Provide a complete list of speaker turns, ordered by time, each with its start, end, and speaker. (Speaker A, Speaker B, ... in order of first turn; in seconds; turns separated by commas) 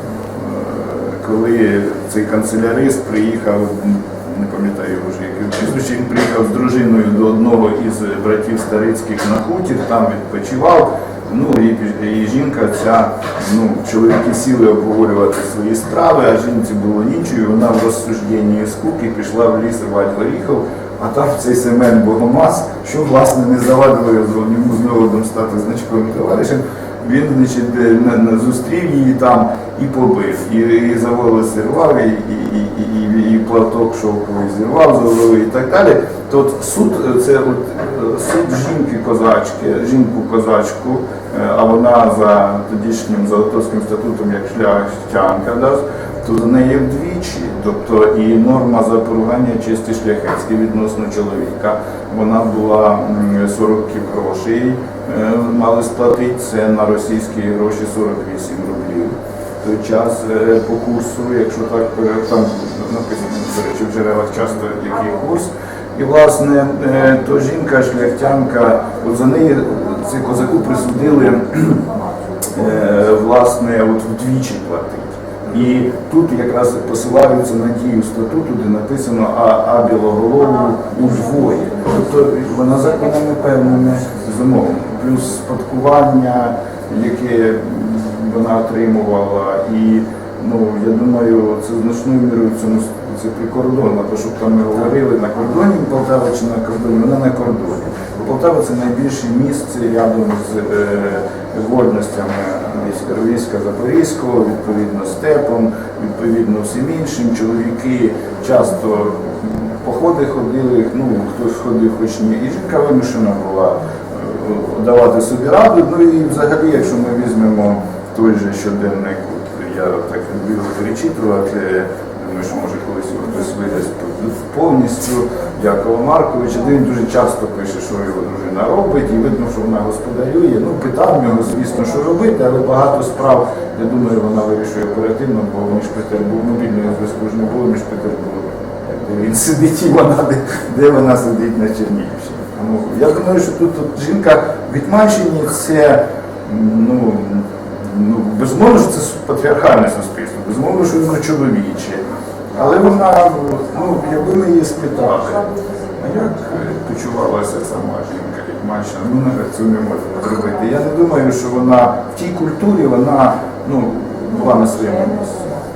Speaker A: 0.3-71.9, Speaker A: 72.4-152.0, Speaker A: 152.5-165.6